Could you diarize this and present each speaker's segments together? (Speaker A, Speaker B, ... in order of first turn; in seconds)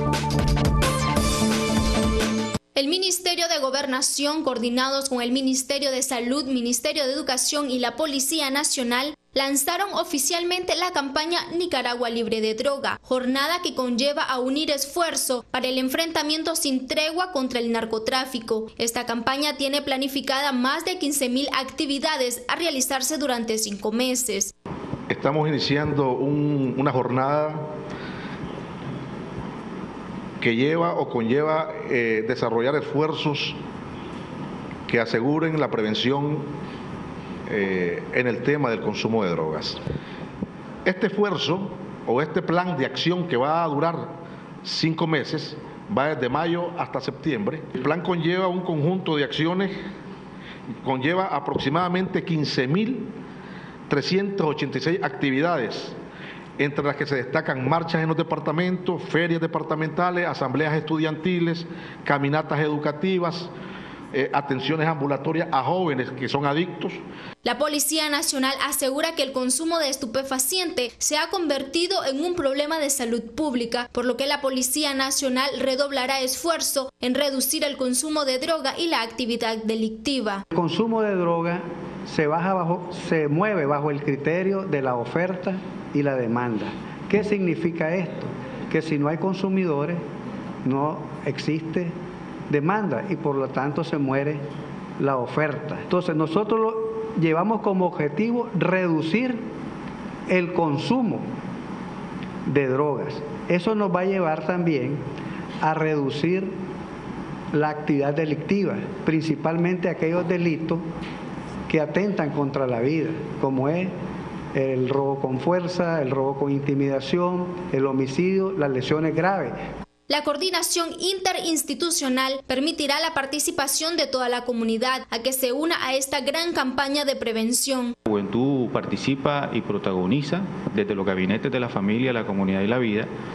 Speaker A: 2.7-24.5, 67.4-80.4, 120.1-127.9
Speaker B: 25.1-27.7, 30.4-33.6, 34.9-36.5, 37.5-39.8, 40.8-49.8, 50.8-53.1, 53.9-56.0, 56.6-63.5, 64.1-67.0
Speaker C: 80.5-90.0, 90.6-91.9, 92.5-94.4, 95.0-99.4, 100.3-101.2, 102.5-105.0, 105.6-106.5, 107.5-110.8, 111.7-113.9, 114.5-119.5
Speaker D: 128.1-133.1